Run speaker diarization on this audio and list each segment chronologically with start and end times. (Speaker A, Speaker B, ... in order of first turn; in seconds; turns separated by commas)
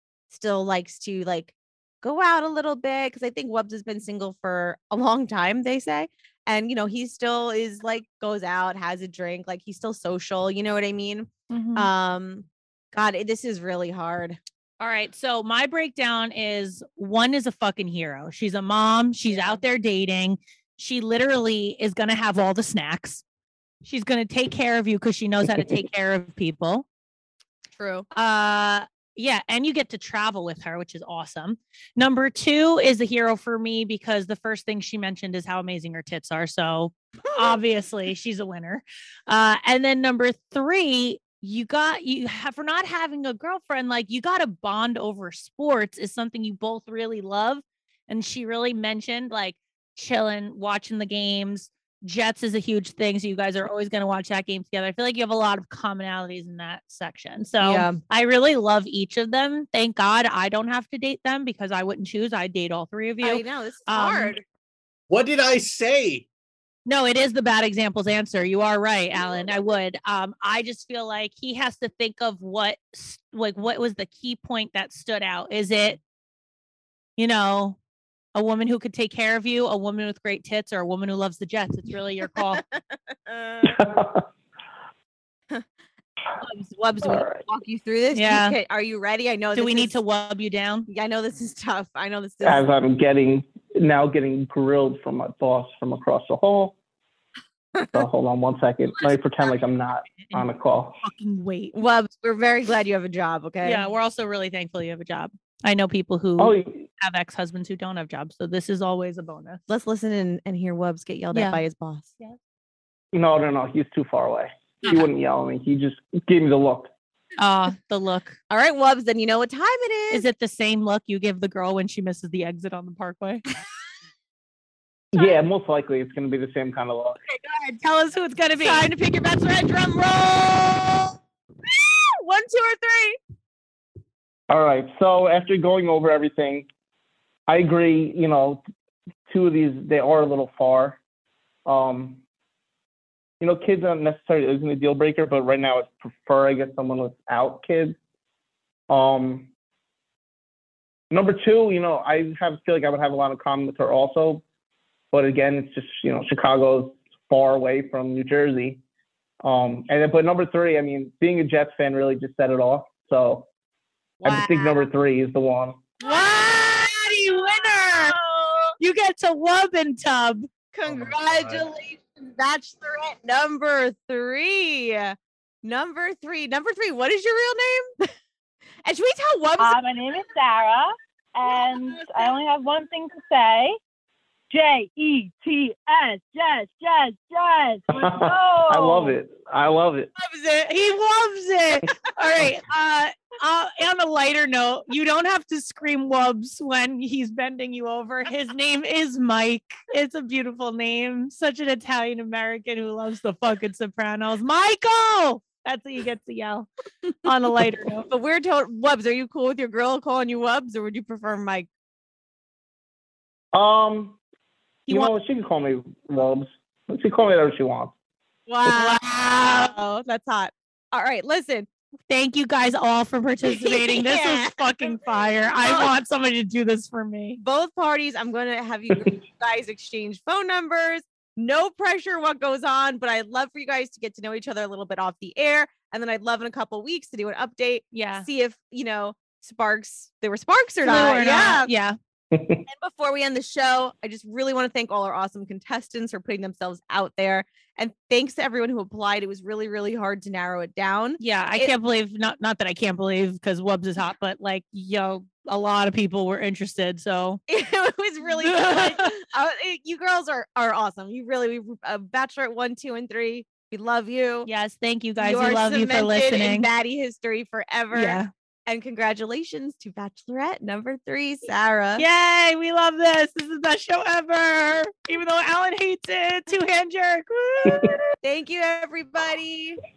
Speaker A: 0.3-14.4, Speaker B: 11.5-11.9, Speaker B: 14.8-23.2, Speaker A: 19.3-19.6, Speaker B: 23.8-26.9, Speaker A: 27.8-28.1, Speaker B: 28.1-64.4, Speaker A: 37.3-37.6, Speaker A: 57.6-58.0, Speaker A: 63.2-64.4, Speaker C: 65.1-66.3, Speaker B: 66.9-76.0, Speaker B: 77.2-77.8, Speaker B: 78.3-82.6, Speaker A: 83.3-83.8, Speaker D: 83.6-84.3, Speaker A: 86.4-90.0, Speaker D: 87.0-87.4, Speaker B: 88.1-88.6, Speaker B: 89.5-90.9, Speaker A: 90.9-92.7, Speaker D: 92.4-96.8, Speaker A: 97.8-98.0, Speaker D: 97.9-101.0, Speaker B: 100.1-100.5, Speaker B: 101.0-101.8, Speaker A: 101.7-103.8, Speaker B: 103.6-109.6, Speaker D: 106.4-106.9, Speaker A: 109.7-112.1, Speaker B: 111.3-111.6, Speaker D: 113.1-116.9, Speaker B: 117.4-118.4, Speaker A: 118.5-120.3, Speaker B: 120.1-123.4, Speaker D: 125.1-127.2, Speaker A: 127.3-127.7, Speaker B: 127.6-128.9, Speaker A: 128.6-133.2, Speaker D: 134.5-136.7, Speaker D: 137.5-138.6, Speaker D: 139.3-141.0, Speaker D: 141.7-142.2, Speaker D: 143.4-148.0, Speaker D: 148.9-149.5, Speaker D: 151.1-154.4, Speaker D: 155.1-158.8, Speaker D: 159.4-163.5, Speaker A: 164.2-164.8, Speaker D: 164.2-165.9, Speaker B: 166.0-168.2, Speaker A: 166.0-168.8, Speaker B: 168.8-170.5, Speaker A: 170.7-177.9, Speaker C: 170.8-171.7, Speaker A: 178.8-179.8, Speaker E: 179.6-183.8, Speaker A: 181.5-182.3, Speaker E: 184.5-189.2, Speaker D: 187.9-190.1, Speaker A: 190.2-190.7, Speaker B: 190.7-206.7, Speaker B: 207.2-208.1, Speaker A: 208.1-211.7, Speaker D: 213.5-214.2, Speaker D: 214.9-217.9, Speaker A: 218.5-221.7, Speaker B: 218.8-219.8, Speaker B: 222.1-227.4, Speaker A: 223.4-225.0, Speaker A: 225.6-225.9, Speaker A: 227.4-241.7, Speaker D: 228.9-229.2, Speaker B: 237.9-238.3, Speaker B: 240.8-242.0, Speaker D: 242.3-242.7, Speaker A: 242.7-251.7, Speaker B: 251.2-257.4, Speaker A: 257.5-264.5, Speaker B: 258.4-259.1, Speaker B: 264.4-266.7, Speaker A: 265.2-272.1, Speaker B: 267.9-268.3, Speaker B: 272.0-278.1, Speaker A: 278.2-279.8